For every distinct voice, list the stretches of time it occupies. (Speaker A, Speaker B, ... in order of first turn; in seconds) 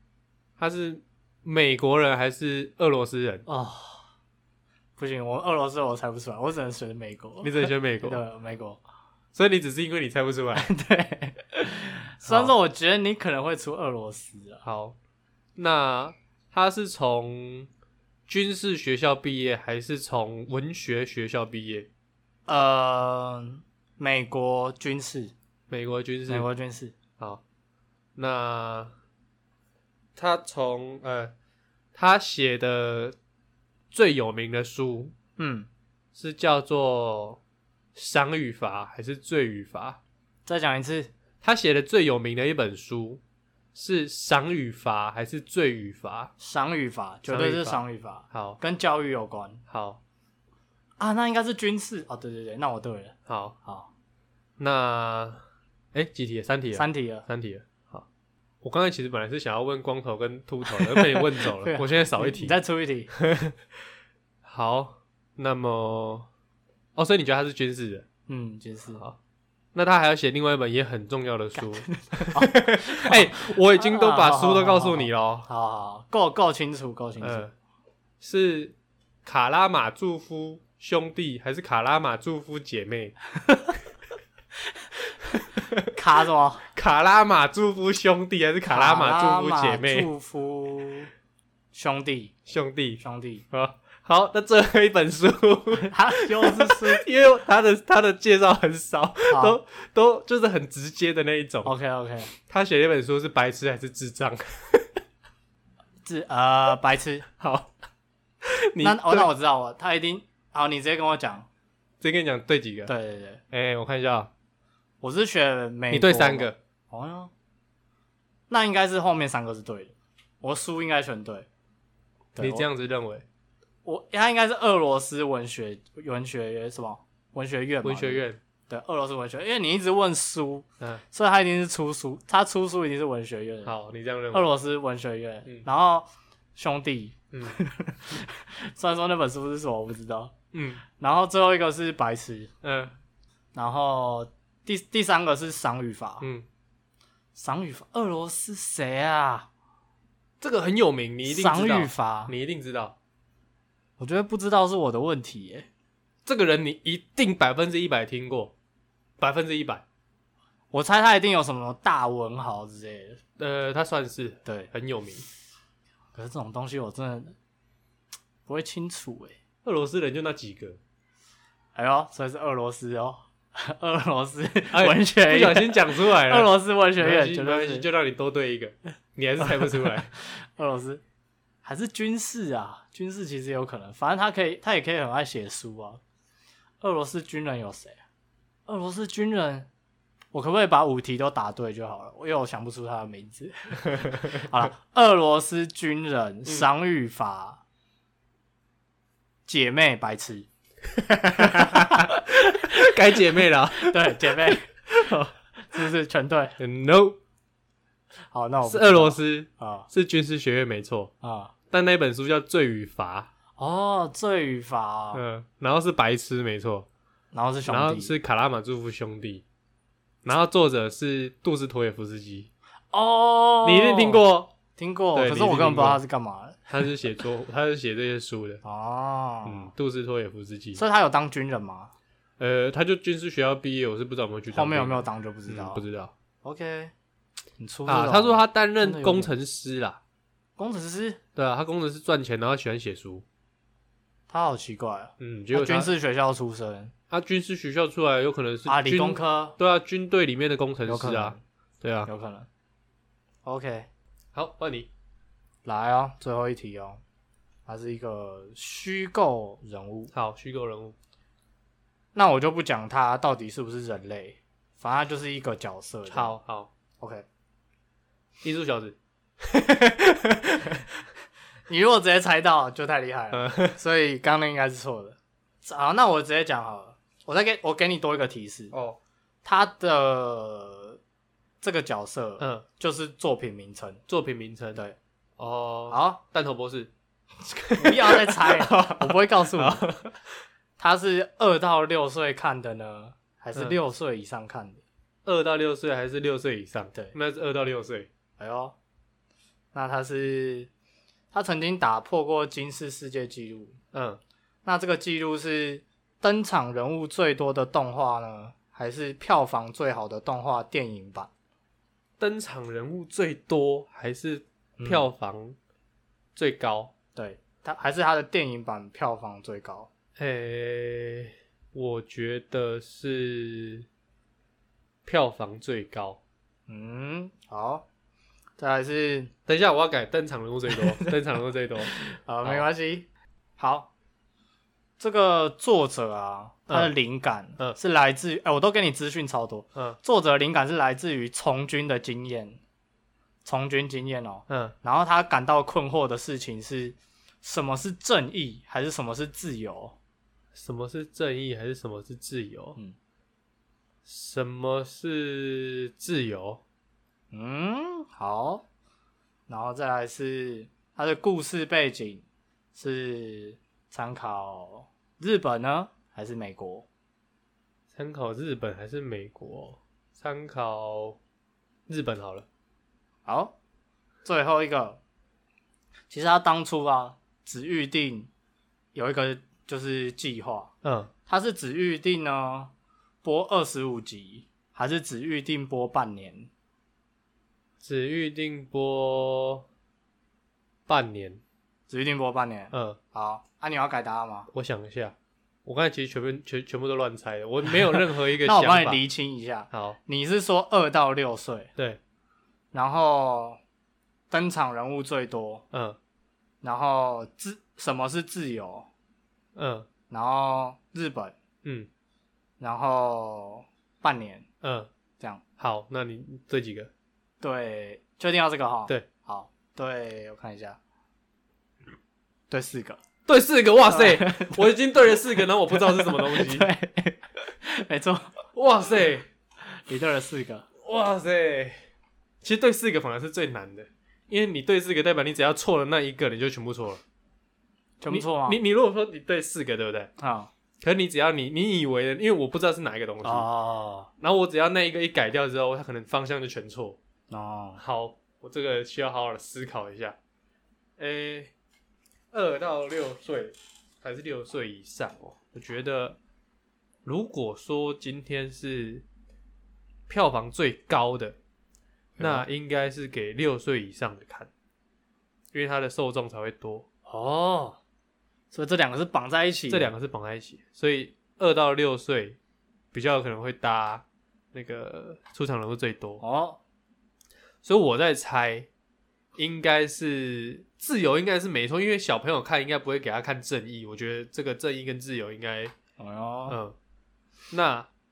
Speaker A: 0.6-3.5, 7.4-8.2, 9.3-10.7, 12.2-12.5, 14.6-14.9, 15.6-17.7, 18.3-21.9, 25.7-26.5, 28.1-28.9, 30.1-31.3, 31.9-33.1, 33.9-35.1, 36.1-37.4, 37.9-40.0, 41.4-43.2, 43.7-46.3, 47.3-48.6, 49.7-50.0, 53.3-53.5, 54.6-55.4, 55.9-58.0, 58.6-62.6, 63.1-63.6, 64.4-66.3, 67.0-68.0, 69.7-75.5, 77.2-77.5, 78.2-83.1, 85.4-85.9, 86.7-90.1, 92.5-101.7, 102.4-105.0, 107.4-107.7, 108.4-109.3, 112.0-112.9, 113.5-114.3, 115.9-116.6, 122.4-123.2, 127.8-128.4, 133.6-134.5, 137.3-137.6, 140.5-140.8, 142.6-142.9, 146.2-146.5, 150.4-152.9, 156.2-158.5, 159.2-159.8, 163.4-165.2, 169.6-170.8, 174.7-180.1, 194.0-194.4, 201.2-205.3, 206.6-207.2, 208.7-211.1, 211.7-213.3, 215.1-216.9, 217.7-219.4, 220.2-222.5, 223.6-224.5, 225.1-226.0, 226.7-228.6, 229.4-230.8, 232.4-236.1, 237.9-240.0, 241.3-243.2, 245.2-245.9, 247.1-252.1, 254.3-254.9, 260.1-260.9, 266.1-266.7, 268.4-270.8, 273.3-273.8, 278.7-279.0, 282.4-282.6, 284.1-284.8, 285.4-286.9, 287.5-290.1, 295.2-298.1, 303.9-304.2, 312.2-315.6, 316.3-316.9, 320.2-323.9, 325.0-326.2, 329.5-332.6, 344.5-344.7, 350.5-352.8, 354.0-356.6, 367.9-371.2, 371.9-372.4, 380.8-381.1, 387.8-389.6, 390.9-391.4, 392.7-393.0, 394.5-399.0, 399.7-400.0, 405.7-406.0, 409.6-409.9, 411.6-411.9, 414.6-414.9, 415.6-416.9, 423.2-426.7, 428.5-429.3, 430.8-431.8, 432.4-437.0, 438.1-440.1, 440.8-443.4, 444.2-447.0, 447.8-450.1, 451.0-451.5, 452.3-456.2, 457.0-459.0, 460.1-461.4, 462.2-464.5, 465.5-466.9, 469.7-472.4, 472.9-476.2, 477.6-478.7, 479.4-485.7, 486.5-486.8, 487.5-487.9
Speaker B: 3.5-4.0, 5.0-8.8, 10.5-14.6, 22.5-25.3, 26.3-26.9, 35.4-35.7, 40.5-41.1, 46.4-49.6, 51.0-53.9, 56.7-57.2, 60.6-63.1, 68.3-69.0, 71.6-77.5, 83.4-83.7, 85.1-86.7, 88.7-91.1, 91.7-92.3, 93.0-93.4, 95.8-97.0, 99.3-99.6, 101.6-102.3, 106.0-107.3, 108.8-111.5, 112.9-113.4, 115.0-117.3, 118.5-121.5, 122.3-122.7, 123.8-133.7, 134.3-140.3, 141.0-142.5, 143.5-146.3, 147.3-149.5, 151.2-152.3, 154.0-155.7, 160.7-163.2, 164.4-164.7, 166.1-167.3, 168.5-169.4, 171.7-177.9, 179.4-181.0, 181.6-186.0, 186.8-188.0, 188.7-189.7, 190.3-197.6, 199.4-200.5, 201.2-204.7, 205.6-206.6, 208.3-209.9, 211.2-211.5, 213.6-215.2, 217.3-218.1, 222.9-224.2, 224.7-226.8, 228.6-229.7, 230.8-231.9, 234.5-235.8, 236.4-236.9, 237.6-239.3, 240.6-241.2, 244.3-246.9, 248.7-249.6, 250.8-251.4, 252.1-252.5, 253.4-253.9, 255.6-257.0, 257.7-260.1, 262.1-266.4, 267.0-267.2, 271.7-278.7, 279.4-281.0, 281.6-284.0, 285.9-286.2, 287.7-289.9, 290.8-294.8, 298.4-298.8, 299.7-300.7, 301.3-303.8, 304.6-311.3, 314.8-315.1, 317.1-319.9, 326.7-327.8, 328.6-329.3, 330.7-331.2, 331.8-333.1, 333.6-333.9, 335.0-342.6, 343.4-349.9, 357.3-358.6, 359.5-366.9, 373.2-373.5, 374.2-375.0, 376.1-378.3, 378.9-380.7, 381.3-382.7, 383.2-386.5, 391.9-394.5, 397.9-401.7, 402.7-403.6, 404.3-405.6, 406.6-408.9, 410.1-411.3, 412.6-414.4, 417.4-420.8, 422.5-423.0, 423.9-424.7, 425.7-428.4, 429.6-430.7, 438.0-438.6, 440.2-440.5, 443.2-444.1, 447.3-447.8, 462.2-462.4, 467.1-467.8, 468.5-469.9, 476.2-476.6, 486.0-486.6